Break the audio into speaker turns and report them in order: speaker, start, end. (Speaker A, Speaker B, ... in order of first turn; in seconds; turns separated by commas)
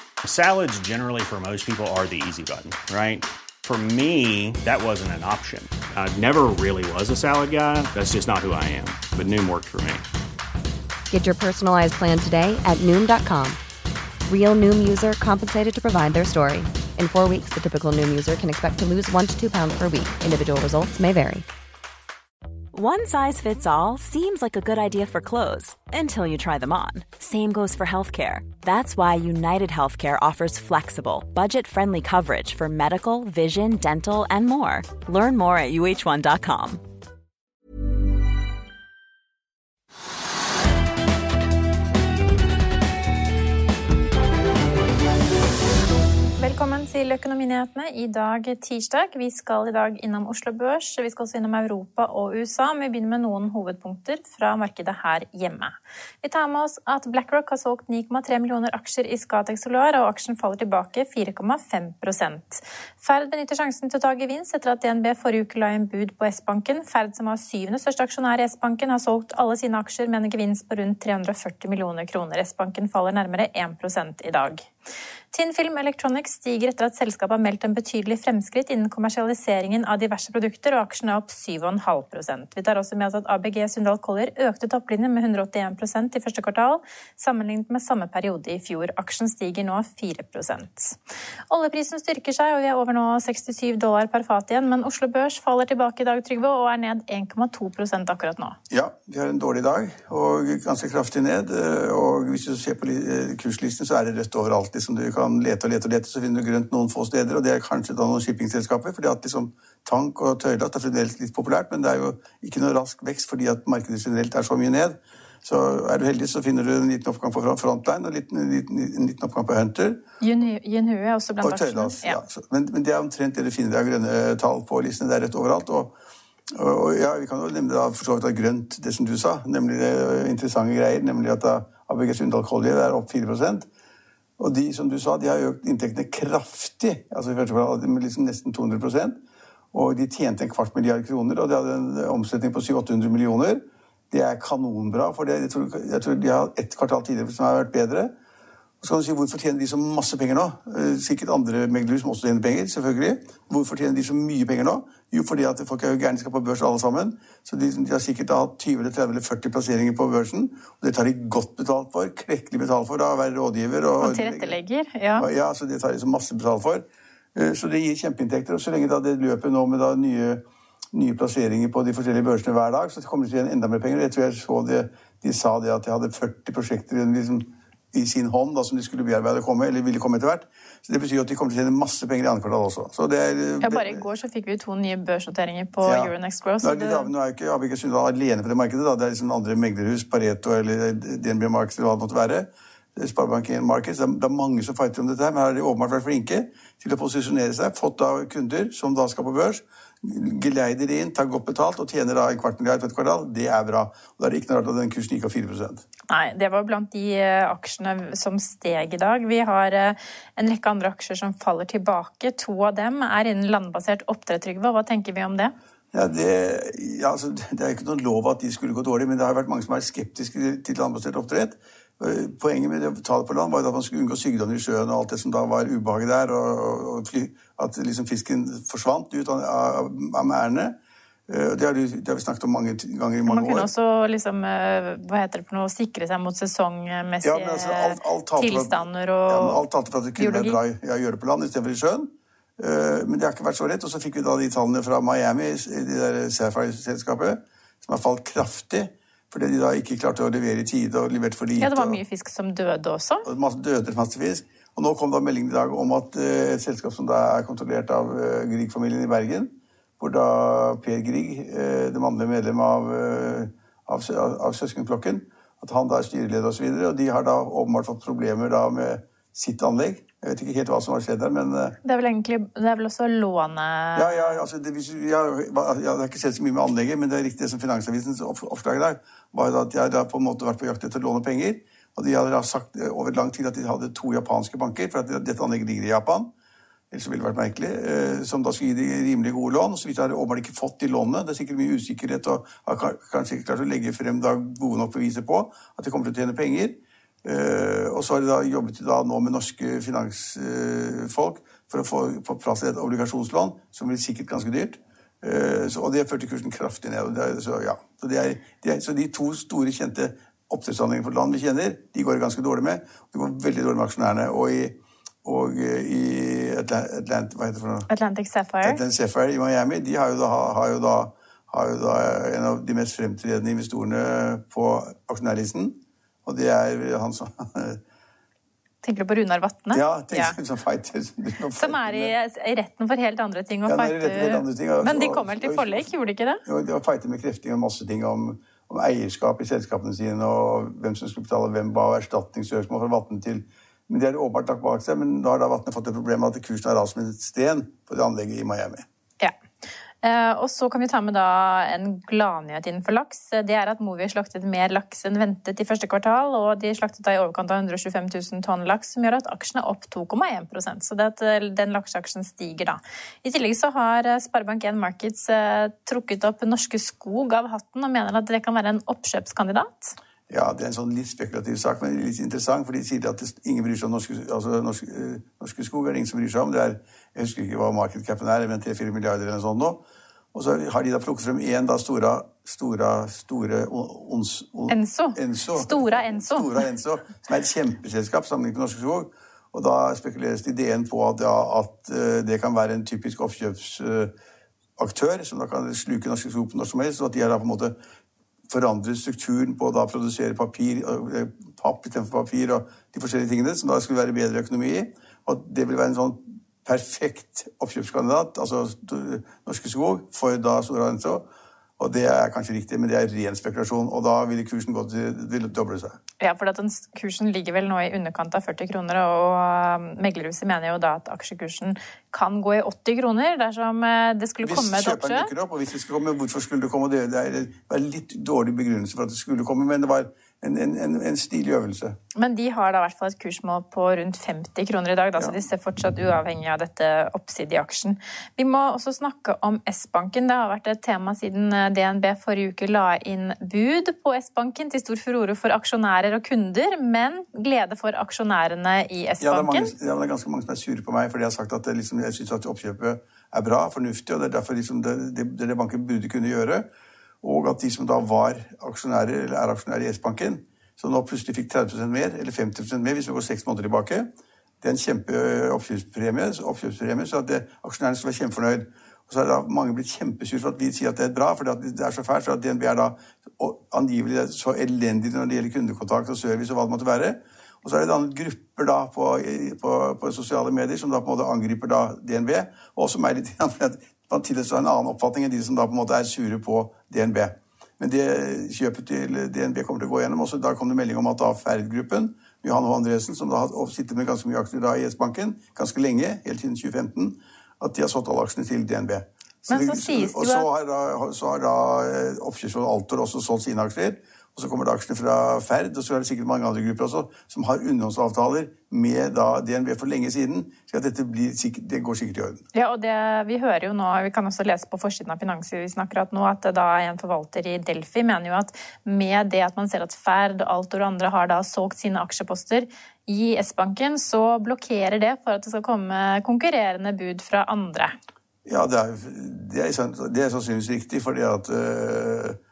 Speaker A: 0.2-10.0, Speaker B: 11.1-13.6, Speaker B: 14.3-21.4, Speaker C: 22.7-36.8, Speaker D: 46.4-74.7, Speaker D: 75.3-91.0, Speaker D: 91.5-98.6, Speaker E: 98.7-120.0, Speaker D: 120.2-122.2, Speaker E: 121.4-125.9, Speaker E: 126.5-133.7, Speaker E: 134.4-139.2, Speaker E: 139.7-148.1, Speaker E: 148.8-164.6, Speaker D: 164.0-165.3, Speaker E: 165.1-170.4, Speaker E: 170.9-184.0, Speaker D: 183.6-187.1, Speaker E: 185.8-205.8, Speaker D: 206.1-215.5, Speaker E: 215.9-230.8, Speaker E: 231.3-233.7, Speaker D: 233.3-239.6, Speaker E: 237.2-252.0, Speaker D: 240.2-240.6, Speaker D: 251.6-253.3, Speaker E: 253.2-271.8, Speaker D: 271.8-274.4, Speaker E: 273.9-286.3, Speaker E: 286.9-317.9, Speaker D: 317.9-318.8, Speaker E: 318.6-327.8, Speaker D: 328.8-330.4, Speaker E: 329.7-332.1, Speaker D: 331.6-336.4, Speaker E: 333.6-335.9, Speaker E: 336.4-348.8, Speaker D: 350.0-369.9, Speaker E: 370.3-379.8, Speaker E: 380.3-394.1, Speaker D: 384.7-386.6, Speaker E: 394.8-397.7, Speaker E: 398.5-411.2, Speaker E: 411.8-416.0, Speaker D: 416.2-425.3, Speaker E: 424.4-431.9, Speaker D: 432.1-449.7, Speaker E: 449.2-456.7, Speaker E: 457.2-464.1, Speaker E: 464.6-512.4, Speaker D: 499.5-500.5, Speaker D: 512.5-527.9, Speaker E: 528.5-532.4